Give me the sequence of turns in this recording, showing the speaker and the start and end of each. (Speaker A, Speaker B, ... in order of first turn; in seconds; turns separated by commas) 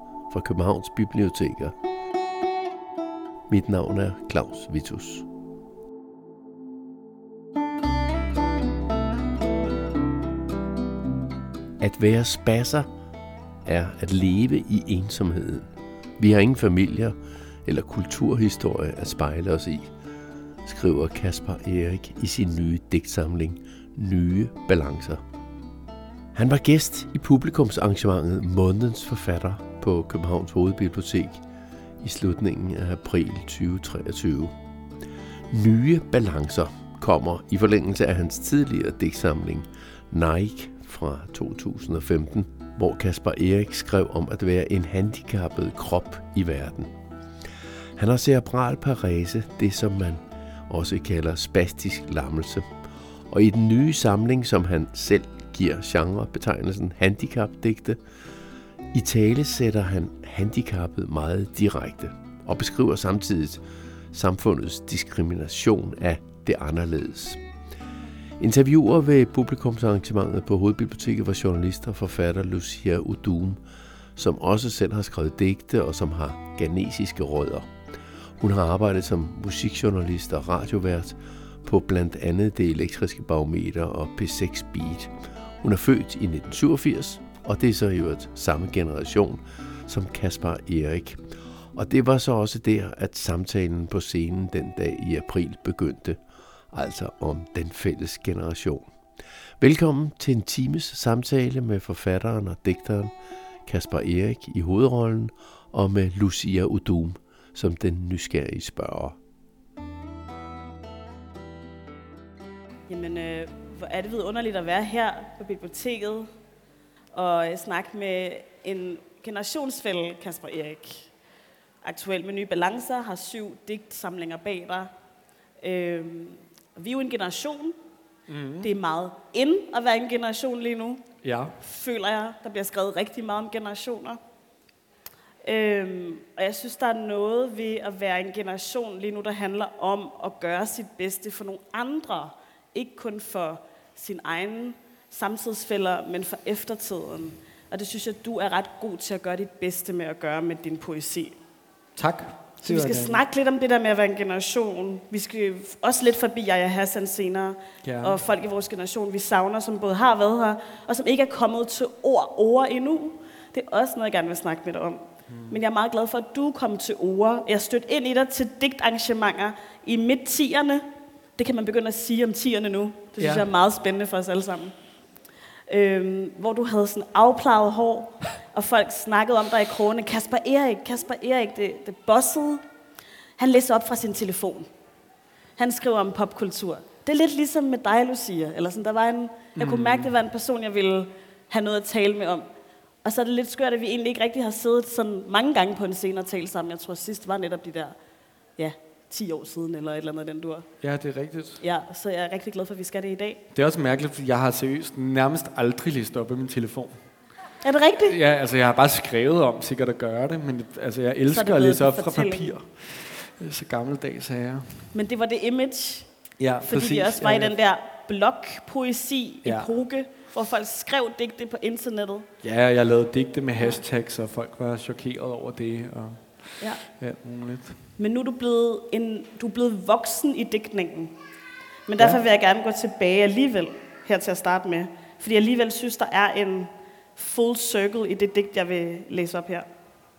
Speaker A: 0.3-1.8, Speaker A: 3.5-5.3, Speaker A: 11.8-12.9, Speaker A: 13.7-19.9, Speaker A: 20.6-25.2, Speaker A: 26.3-31.4, Speaker A: 32.0-34.5, Speaker A: 35.5-46.9, Speaker A: 48.0-52.7, Speaker A: 53.3-58.0, Speaker A: 58.9-67.4, Speaker A: 68.4-73.6, Speaker A: 74.2-77.7, Speaker A: 78.4-96.2, Speaker A: 96.7-98.9, Speaker A: 99.6-103.1, Speaker A: 103.7-109.2, Speaker B: 112.9-116.3, Speaker B: 117.1-121.1, Speaker B: 121.8-124.9, Speaker B: 125.6-127.8, Speaker C: 128.3-128.7, Speaker B: 128.6-131.0, Speaker C: 131.2-131.6, Speaker B: 131.6-134.2, Speaker B: 135.4-151.3, Speaker C: 152.0-153.2, Speaker B: 152.6-170.8, Speaker C: 157.8-158.2, Speaker C: 165.3-165.6, Speaker B: 171.4-174.7, Speaker C: 173.2-173.4, Speaker B: 175.7-182.6, Speaker B: 183.4-184.7, Speaker B: 185.6-192.5, Speaker C: 189.6-190.1, Speaker B: 193.0-198.0, Speaker B: 198.6-200.7, Speaker C: 200.8-201.6, Speaker B: 201.6-203.4, Speaker C: 203.5-207.0, Speaker B: 207.6-208.2, Speaker C: 208.1-214.9, Speaker B: 211.3-212.5, Speaker B: 214.9-216.1, Speaker C: 216.4-217.5, Speaker B: 216.6-222.3, Speaker C: 219.4-219.7, Speaker C: 222.4-227.8, Speaker B: 228.0-231.2, Speaker B: 231.9-239.7